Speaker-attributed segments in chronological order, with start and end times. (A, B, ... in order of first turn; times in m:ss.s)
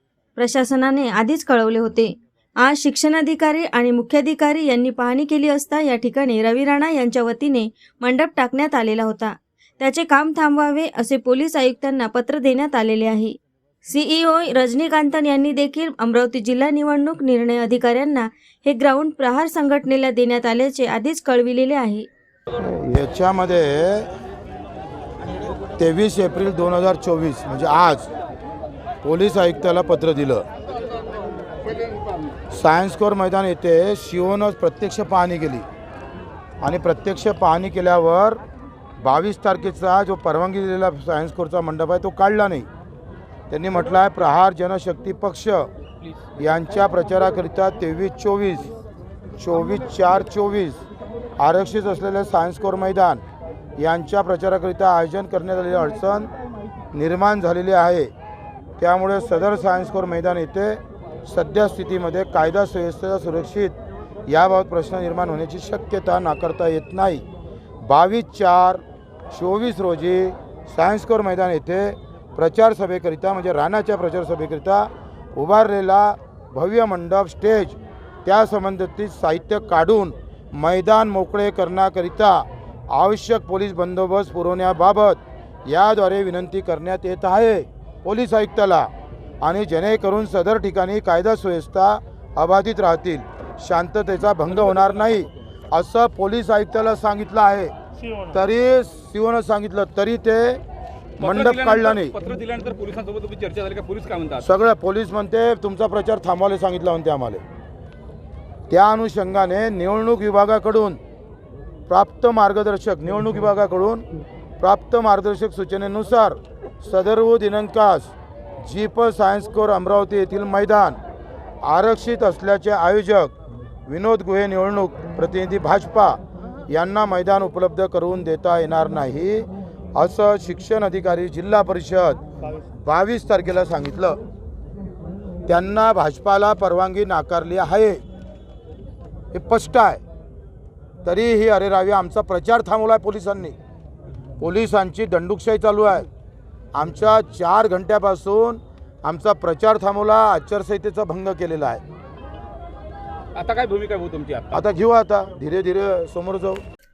0:00.4-0:22.1 A
0:22.6-0:24.1 B
0:25.8-0:28.1 B
0:29.0-0:30.4 B
0:32.5-0:35.7 B
0:36.6-0:38.4 B
0:39.0-0:42.7 B
0:43.5-0:45.7 B
0:46.4-0:48.7 B
0:49.4-0:50.8 B
0:51.4-0:53.2 B
0:53.8-0:56.3 B
0:56.9-0:58.1 B
0:58.8-1:03.8 B
1:04.3-1:07.2 B
1:07.8-1:28.9 B
1:29.4-1:37.7 B
1:34.8-1:35.2 C
1:38.3-1:40.6 B
1:41.2-1:42.1 B
1:41.2-1:44.5 C
1:44.4-1:47.4 B
1:48.7-1:51.0 B
1:51.9-1:54.0 B
1:54.6-2:01.0 B
2:01.6-2:03.4 B
2:03.9-2:12.2 B
2:12.8-2:14.2 B
2:15.5-2:18.0 B
2:19.3-2:20.0 B
2:21.0-2:23.6 B
2:24.4-2:26.1 B
2:26.7-2:31.8 B
2:33.3-2:34.6 C
2:34.5-2:36.6 B